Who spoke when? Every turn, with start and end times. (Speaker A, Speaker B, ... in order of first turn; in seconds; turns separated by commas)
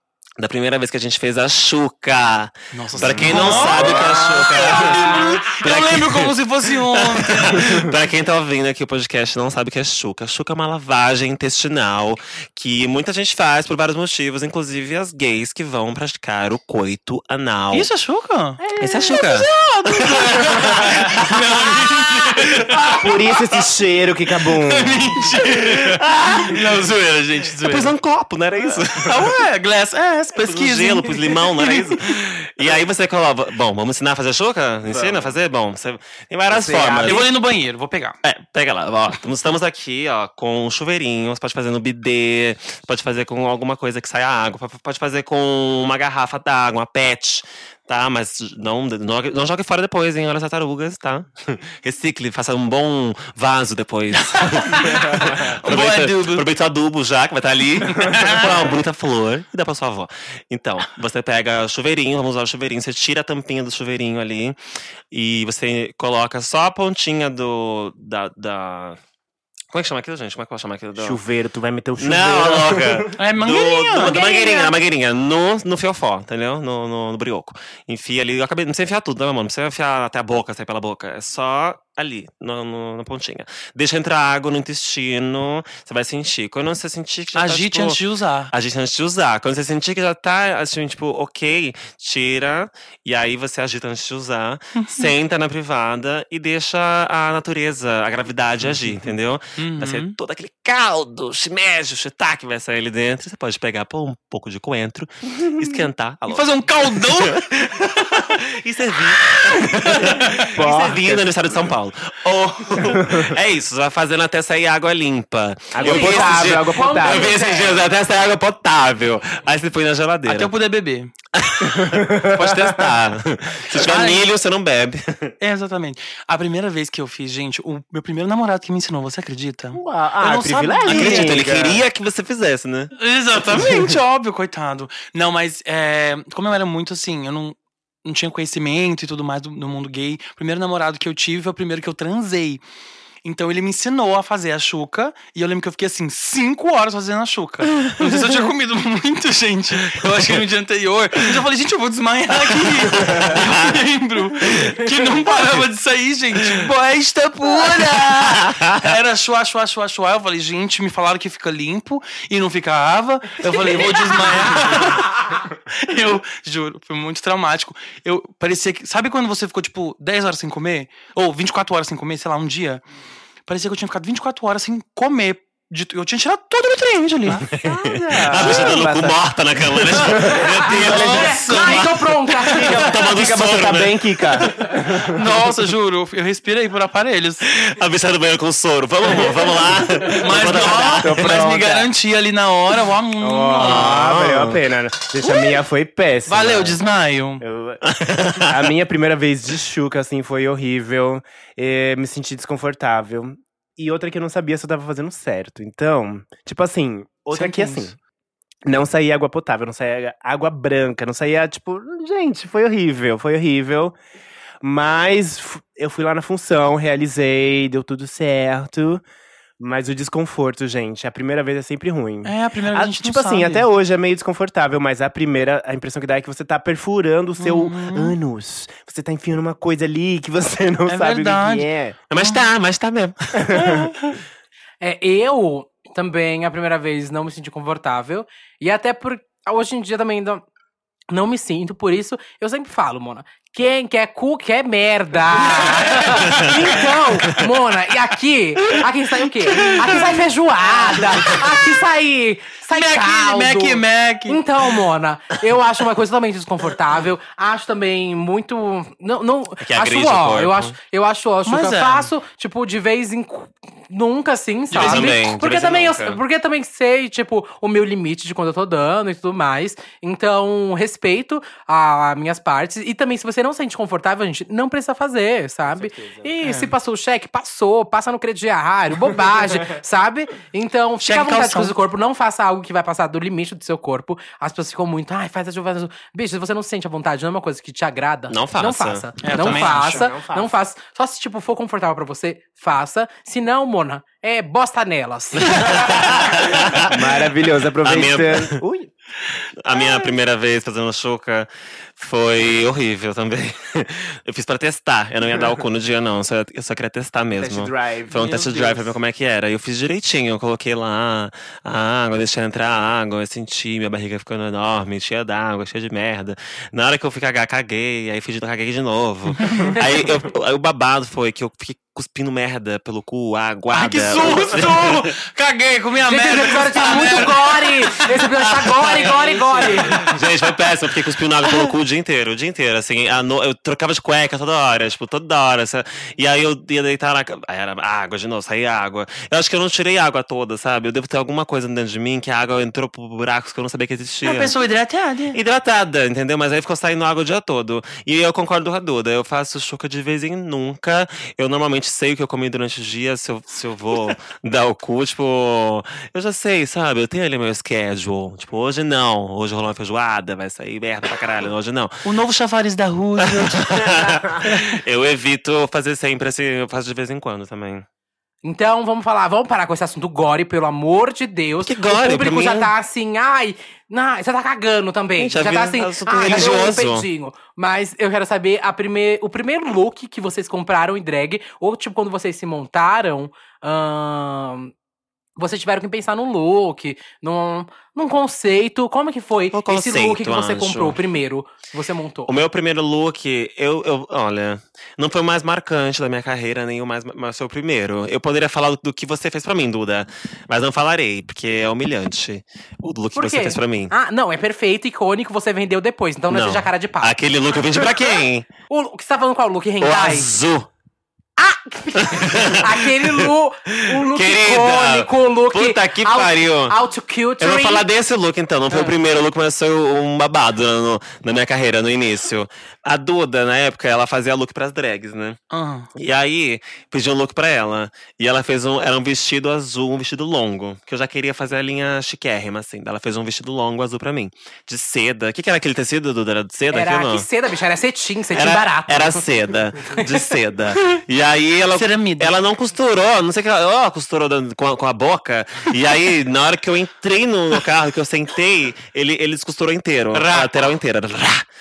Speaker A: 0.4-17.9, Speaker B: 2.7-7.7, Speaker C: 3.0-5.3, Speaker B: 17.7-23.1, Speaker C: 18.6-19.2, Speaker A: 18.8-23.1, Speaker C: 22.9-25.2, Speaker B: 24.5-27.9, Speaker A: 25.3-26.9, Speaker A: 27.6-29.4, Speaker B: 28.9-32.2, Speaker A: 30.4-37.3, Speaker C: 34.9-35.4, Speaker C: 36.5-37.2, Speaker B: 37.0-38.2, Speaker A: 38.2-64.6, Speaker B: 54.1-56.5, Speaker B: 57.9-58.6, Speaker A: 65.1-69.0, Speaker A: 69.7-71.2, Speaker C: 71.0-73.1, Speaker A: 72.0-120.5, Speaker B: 73.2-74.2, Speaker D: 74.0-74.7, Speaker B: 87.3-88.5, Speaker B: 94.8-95.1, Speaker B: 98.7-99.0, Speaker B: 99.6-100.2, Speaker B: 106.3-107.5, Speaker C: 110.5-111.3, Speaker C: 112.8-113.3, Speaker C: 115.7-117.3, Speaker D: 115.8-117.8, Speaker B: 120.2-121.1, Speaker A: 121.3-125.3, Speaker C: 121.6-122.9, Speaker B: 123.7-124.2, Speaker B: 125.4-131.4, Speaker C: 129.7-131.8, Speaker A: 130.9-132.9, Speaker B: 133.0-142.6, Speaker B: 143.2-172.8, Speaker A: 152.8-153.8, Speaker A: 154.4-155.6, Speaker A: 157.7-158.9, Speaker B: 173.5-177.5, Speaker A: 177.4-184.8, Speaker C: 177.6-179.2, Speaker B: 178.1-178.8, Speaker C: 179.7-181.3, Speaker B: 180.7-182.1, Speaker D: 180.9-182.8, Speaker C: 182.4-185.5, Speaker B: 185.1-187.4, Speaker A: 187.4-191.3, Speaker B: 190.1-194.0, Speaker C: 190.5-191.9, Speaker C: 193.2-196.8, Speaker A: 193.6-194.6, Speaker B: 195.2-195.6, Speaker B: 196.2-197.4, Speaker C: 197.4-197.8, Speaker A: 197.8-198.7, Speaker C: 198.4-207.9, Speaker B: 207.3-207.9, Speaker C: 208.6-213.9, Speaker C: 214.6-219.0, Speaker C: 219.6-231.9, Speaker B: 222.2-223.7, Speaker B: 227.4-228.2, Speaker B: 230.9-232.4, Speaker A: 232.1-233.7, Speaker C: 233.3-233.9, Speaker B: 233.6-234.2, Speaker D: 234.8-240.4, Speaker D: 241.1-296.0, Speaker B: 245.6-246.5, Speaker A: 246.1-246.5, Speaker A: 249.5-250.0, Speaker B: 249.7-250.1, Speaker A: 251.1-251.3, Speaker B: 252.7-254.4, Speaker A: 259.6-260.8, Speaker B: 261.4-262.1, Speaker B: 264.7-265.1, Speaker A: 264.7-266.2, Speaker C: 275.6-276.3, Speaker B: 276.4-276.7, Speaker B: 281.0-281.7, Speaker A: 288.3-289.5, Speaker B: 289.2-290.1, Speaker C: 289.4-290.6, Speaker A: 295.4-297.0, Speaker C: 296.3-298.9, Speaker A: 297.8-298.6, Speaker A: 299.6-325.1, Speaker C: 307.4-308.4, Speaker B: 308.2-308.7, Speaker B: 319.4-319.7, Speaker B: 323.7-330.0, Speaker D: 326.1-330.1, Speaker A: 328.6-344.5, Speaker B: 344.2-345.4, Speaker A: 345.3-362.0, Speaker B: 362.0-363.9, Speaker A: 363.2-367.8, Speaker D: 368.4-384.7, Speaker A: 371.6-372.7, Speaker A: 375.2-377.1, Speaker D: 385.4-392.3, Speaker A: 389.5-391.0, Speaker A: 392.2-403.9, Speaker D: 403.1-410.3, Speaker A: 406.3-408.5, Speaker A: 409.8-410.7, Speaker D: 411.4-417.9, Speaker A: 411.9-416.8, Speaker A: 417.4-425.4, Speaker B: 425.5-425.9, Speaker A: 425.9-437.3, Speaker D: 436.7-439.2, Speaker A: 438.3-451.4, Speaker D: 439.9-440.2, Speaker B: 441.7-442.3, Speaker B: 450.1-450.7